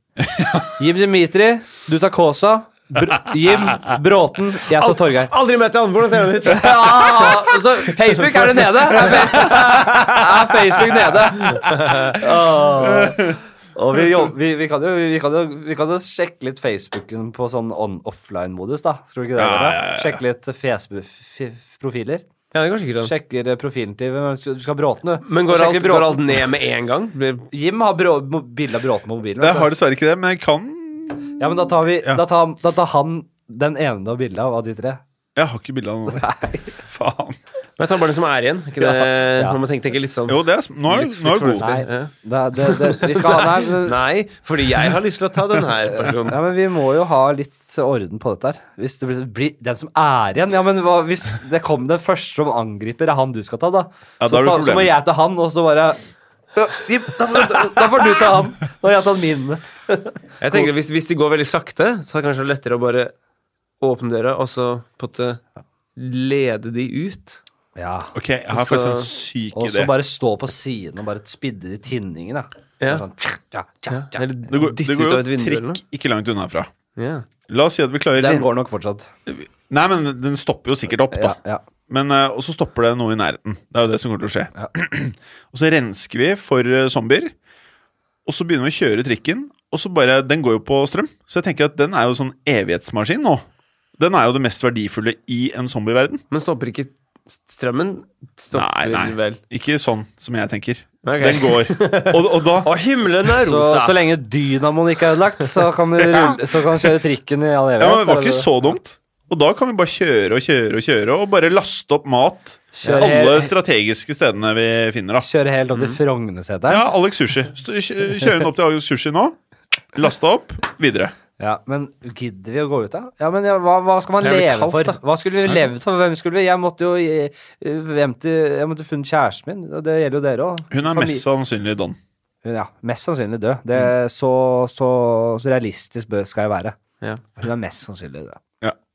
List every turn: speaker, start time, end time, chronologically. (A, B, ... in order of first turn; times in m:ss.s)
0:00.2-0:00.7 A
0:00.8-0:05.3 B
0:04.7-0:10.0 C
0:06.5-0:22.2 B
0:09.4-0:10.1 A
0:11.5-0:12.2 C
0:12.8-0:13.4 A
0:19.4-0:20.2 A
0:22.5-0:23.1 C
0:23.0-0:26.3 B
0:25.2-0:27.5 C
0:27.5-0:29.7 B
0:29.4-0:32.2 A
0:31.4-0:35.0 B
0:35.4-0:36.3 A
0:36.1-0:36.8 B
0:36.8-0:37.4 A
0:37.8-0:46.4 C
0:38.8-0:39.6 B
0:40.3-0:41.7 A
0:41.6-0:44.0 B
0:46.0-0:56.0 B
0:54.2-0:54.9 A
0:56.5-1:00.7 B
1:00.4-1:03.1 C
1:03.8-1:05.4 C
1:06.0-1:07.4 C
1:07.8-1:08.1 B
1:08.1-1:09.9 A
1:08.5-1:09.1 C
1:09.5-1:14.2 B
1:13.9-1:15.8 C
1:14.5-1:16.7 A
1:17.0-1:17.3 C
1:17.5-1:18.5 A
1:18.2-1:19.1 B
1:19.3-1:21.4 A
1:21.1-1:21.6 B
1:21.9-1:27.3 A
1:28.2-1:33.5 A
1:34.0-1:36.2 A
1:36.3-1:39.4 C
1:38.5-1:42.7 A
1:41.0-1:44.0 C
1:43.4-1:48.8 B
1:46.1-1:46.4 A
1:47.8-1:55.3 A
1:52.7-1:53.5 B
1:55.2-1:56.9 B
1:55.7-1:56.0 C
1:56.7-1:59.4 A
1:59.9-2:01.1 A
2:01.4-2:11.2 B
2:04.2-2:05.0 C
2:10.7-2:12.0 A
2:12.4-2:16.8 B
2:17.4-2:18.4 B